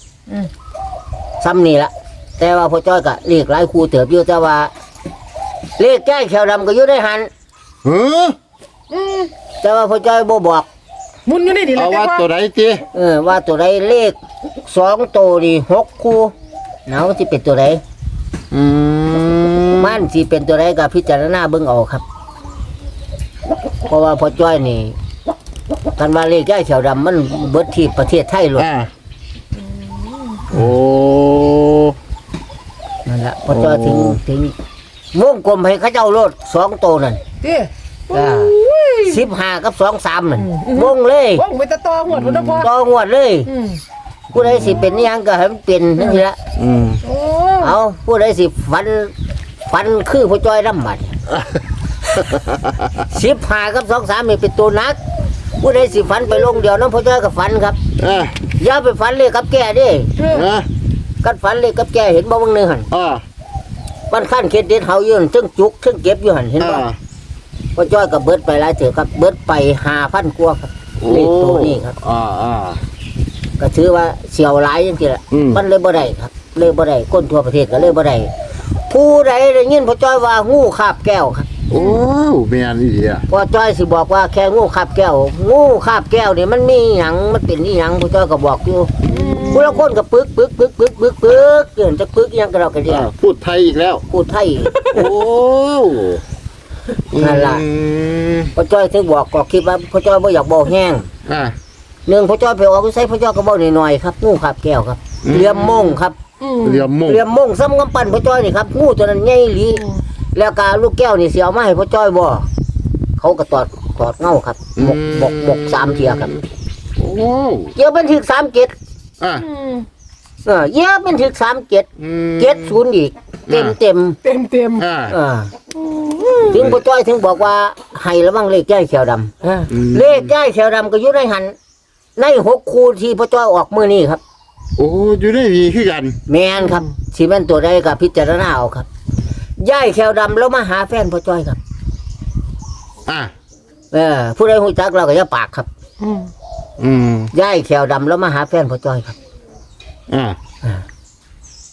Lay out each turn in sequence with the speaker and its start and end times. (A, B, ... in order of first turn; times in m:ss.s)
0:01.4-0:04.7 A
0:05.8-0:07.3 A
0:07.8-0:08.4 B
0:08.9-0:09.3 C
0:09.6-0:10.7 A
0:11.2-0:12.3 C
0:11.7-0:12.8 B
0:12.9-0:16.3 A
0:16.9-0:17.8 A
0:18.5-0:20.0 B
0:19.7-0:22.0 A
0:23.9-0:25.0 A
0:26.0-0:28.7 A
0:28.6-0:28.9 B
0:29.8-0:30.4 C
0:30.5-0:32.0 B
0:33.0-0:34.5 A
0:33.5-0:34.2 B
0:35.1-0:37.2 A
0:37.4-0:39.2 C
0:38.1-0:41.4 A
0:40.4-0:42.7 C
0:42.1-0:42.7 B
0:42.6-0:43.5 A
0:43.5-0:43.8 C
0:44.3-0:46.4 A
0:44.3-0:44.8 B
0:46.6-0:47.0 B
0:47.0-0:47.8 C
0:47.6-0:49.1 A
0:49.7-0:51.1 A
0:52.2-0:52.6 B
0:53.0-0:55.0 A
0:55.6-0:57.8 A
0:58.0-0:58.3 B
0:58.6-1:00.1 A
1:00.2-1:00.5 C
1:00.2-1:00.7 B
1:01.2-1:02.9 A
1:02.9-1:03.2 B
1:04.1-1:06.8 A
1:06.6-1:07.0 B
1:07.8-1:12.0 A
1:11.0-1:12.8 B
1:13.6-1:18.3 A
1:15.3-1:15.6 B
1:18.9-1:21.5 A
1:21.7-1:23.2 B
1:23.3-1:33.1 A
1:29.1-1:29.8 C
1:32.9-1:34.0 B
1:34.1-1:35.0 A
1:34.7-1:36.2 B
1:37.1-1:38.5 B
1:37.1-1:37.6 A
1:38.5-1:41.1 A
1:41.2-1:41.6 B
1:42.1-1:46.2 A
1:45.2-1:46.0 B
1:46.4-1:46.9 C
1:46.6-1:47.2 B
1:47.0-1:52.5 A
1:53.2-1:56.3 A
1:54.8-1:56.4 B
1:57.0-1:57.7 B
1:57.8-1:58.7 A
1:59.2-1:59.4 B
1:59.4-1:59.9 C
2:00.4-2:04.2 A
2:02.0-2:02.8 B
2:03.5-2:03.8 B
2:04.2-2:04.9 C
2:04.8-2:05.2 B
2:05.1-2:05.5 A
2:05.8-2:06.5 C
2:06.5-2:11.6 A
2:06.5-2:06.8 B
2:09.7-2:10.3 B
2:12.2-2:14.2 A
2:14.8-2:16.2 B
2:16.3-2:18.9 A
2:19.6-2:21.6 A
2:23.9-2:25.7 A
2:26.0-2:26.3 C
2:26.8-2:27.3 B
2:27.3-2:29.2 A
2:30.1-2:30.4 B